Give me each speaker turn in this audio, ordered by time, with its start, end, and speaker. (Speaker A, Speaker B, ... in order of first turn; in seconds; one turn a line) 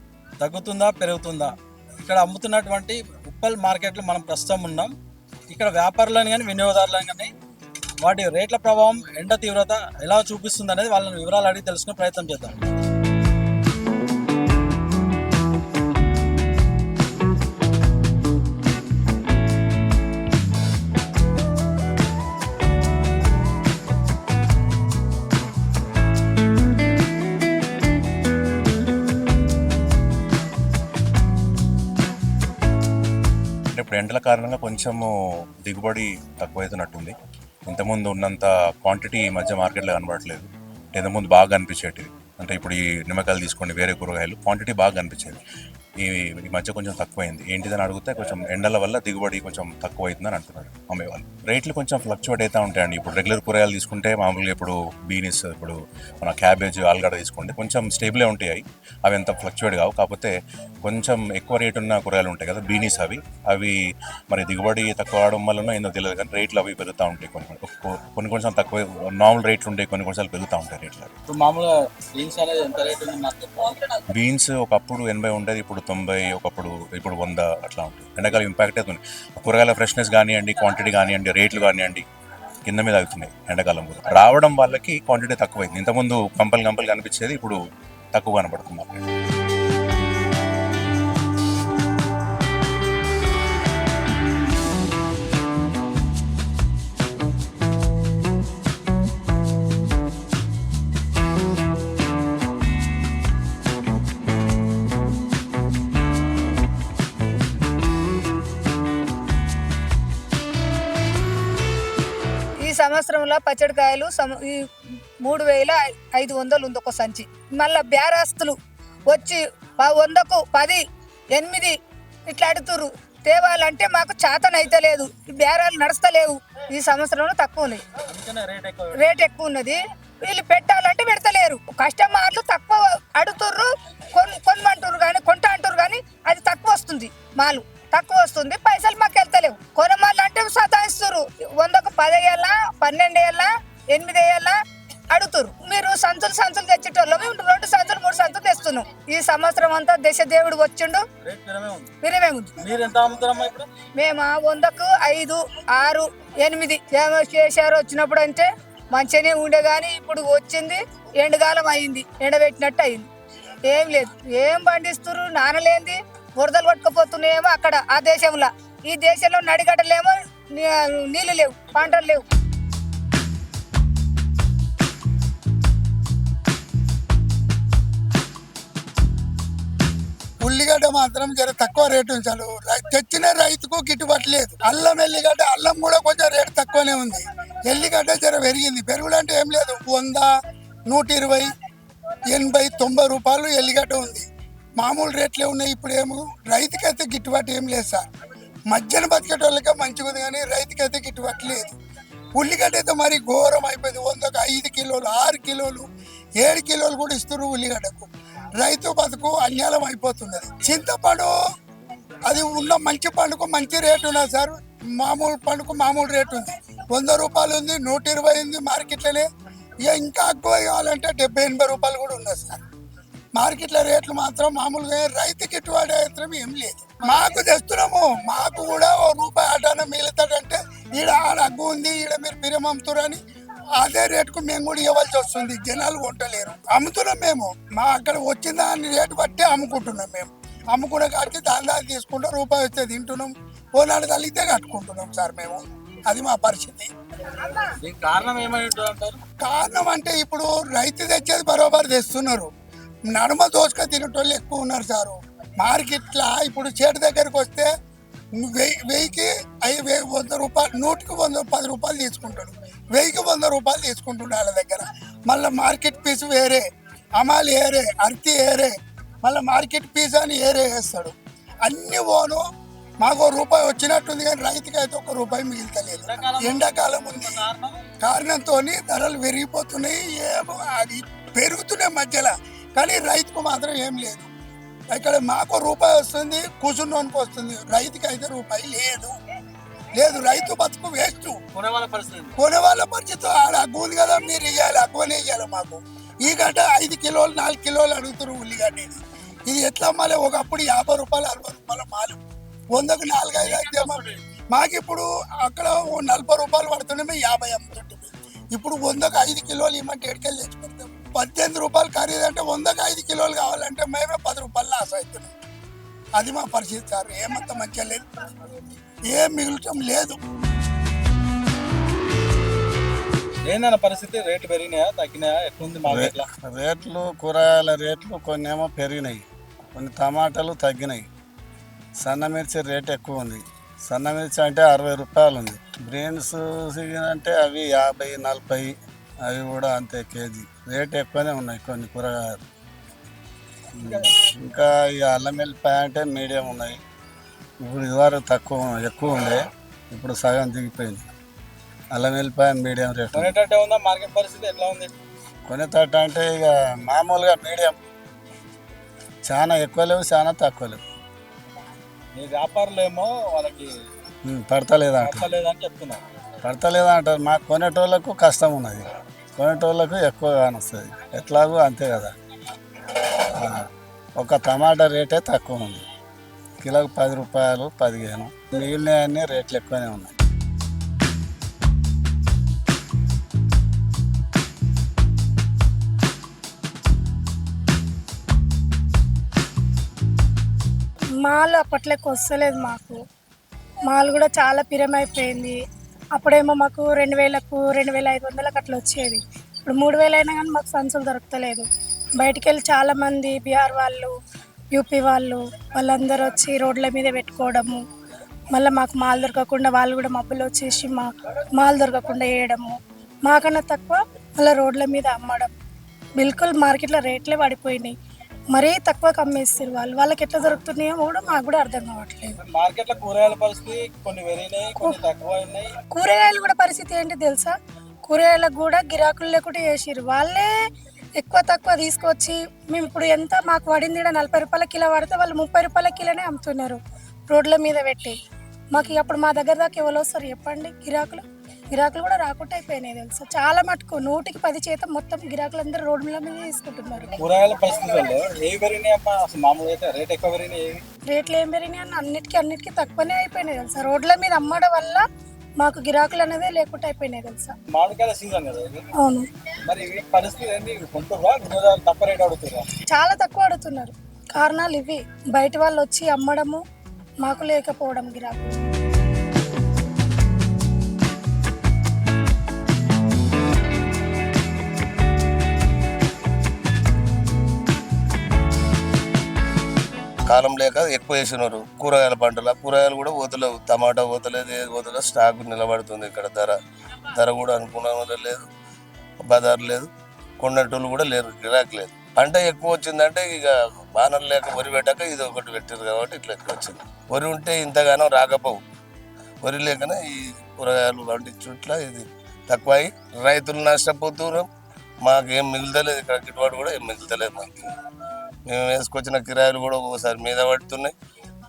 Speaker A: 0.4-1.5
Speaker A: 2.0-4.9
Speaker A: 5.5-7.3
Speaker A: 8.0-12.6
Speaker B: 33.7-35.1
Speaker B: 35.6-37.1
Speaker B: 37.7-45.4
Speaker B: 46.0-60.3
Speaker B: 60.8-63.8
Speaker B: 64.3-71.2
Speaker A: 71.3-73.9
Speaker B: 74.2-82.1
Speaker B: 82.7-87.6
Speaker B: 88.1-89.0
Speaker C: 112.6-114.6
Speaker C: 115.2-118.6
Speaker C: 119.1-120.8
Speaker C: 121.3-121.7
Speaker C: 122.3-127.8
Speaker A: 128.1-129.0
Speaker C: 128.9-144.6
Speaker C: 145.1-151.0
Speaker A: 151.2-151.9
Speaker C: 152.0-152.5
Speaker A: 152.6-153.7
Speaker C: 154.0-163.0
Speaker C: 163.7-172.2
Speaker D: 180.4-190.3
Speaker D: 190.9-191.5
Speaker D: 192.3-194.3
Speaker D: 194.8-198.0
Speaker D: 198.7-201.8
Speaker D: 202.4-205.9
Speaker D: 206.4-211.3
Speaker D: 212.3-219.3
Speaker D: 219.9-222.6
Speaker D: 223.4-233.2
Speaker D: 233.8-246.9
Speaker A: 247.8-249.2
Speaker D: 249.4-252.5
Speaker D: 253.1-257.7
Speaker D: 258.4-266.6
Speaker D: 267.2-268.7
Speaker D: 269.2-272.4
Speaker D: 273.0-277.4
Speaker A: 276.1-277.8
Speaker D: 278.0-284.3
Speaker D: 284.9-289.1
Speaker D: 290.0-291.4
Speaker A: 291.6-292.3
Speaker D: 292.4-302.2
Speaker D: 302.7-315.3
Speaker D: 316.2-318.0
Speaker D: 319.1-320.2
Speaker A: 323.5-326.2
Speaker E: 325.9-329.2
Speaker E: 329.8-331.1
Speaker E: 332.0-338.7
Speaker E: 339.3-342.4
Speaker E: 343.8-346.8
Speaker E: 347.6-351.0
Speaker E: 351.9-353.3
Speaker A: 353.1-354.9
Speaker E: 355.5-357.8
Speaker E: 359.3-360.8
Speaker A: 362.1-363.7
Speaker E: 364.2-365.3
Speaker A: 365.0-366.0
Speaker E: 366.4-372.1
Speaker E: 373.4-373.6
Speaker E: 374.2-375.8
Speaker E: 376.6-380.1
Speaker F: 391.2-393.0
Speaker F: 393.9-395.6
Speaker F: 396.1-404.1
Speaker F: 404.7-407.8
Speaker F: 408.5-415.5
Speaker F: 416.2-417.9
Speaker F: 418.5-422.4
Speaker A: 422.4-425.7
Speaker F: 424.8-425.0
Speaker F: 425.9-430.5
Speaker F: 431.2-438.2
Speaker F: 438.7-447.2
Speaker A: 447.2-450.8
Speaker F: 451.1-455.1
Speaker F: 455.6-457.6
Speaker A: 457.7-458.9
Speaker F: 459.0-459.3
Speaker A: 459.7-462.7
Speaker F: 462.9-466.6
Speaker F: 467.2-468.5
Speaker G: 480.3-486.6
Speaker G: 487.1-488.5
Speaker G: 489.2-498.6
Speaker G: 499.4-504.5
Speaker G: 505.0-507.6
Speaker G: 508.5-510.9